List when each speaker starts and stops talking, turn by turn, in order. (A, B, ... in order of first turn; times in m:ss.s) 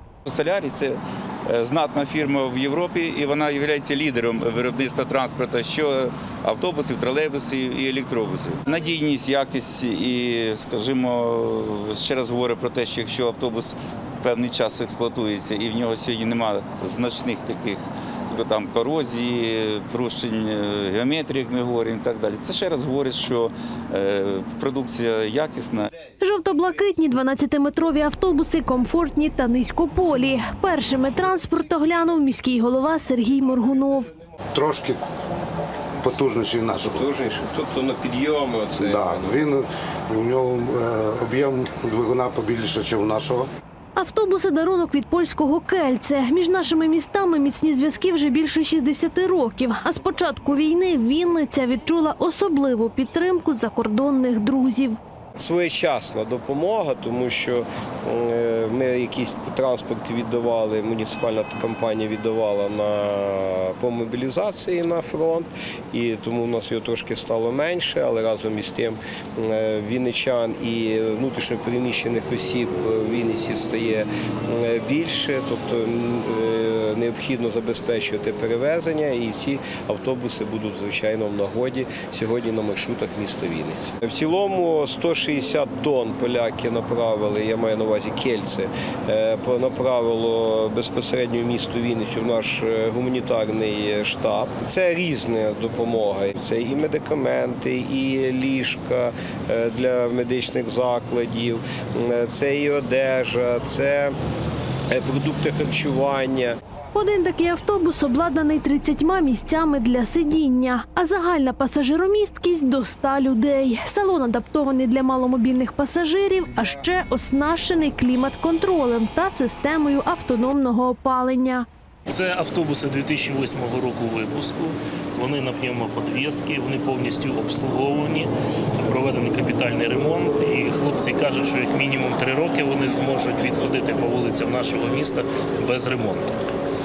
0:00.2-0:25.9 A
0:26.2-0:34.1 B
0:34.5-0:35.0 C
0:36.0-0:36.8 C
0:36.9-0:39.4 D
0:38.8-0:43.5 C
0:44.0-0:55.0 B
0:55.4-1:44.1 D
1:44.9-1:46.5 D
1:46.9-2:01.6 B
2:02.1-2:16.4 E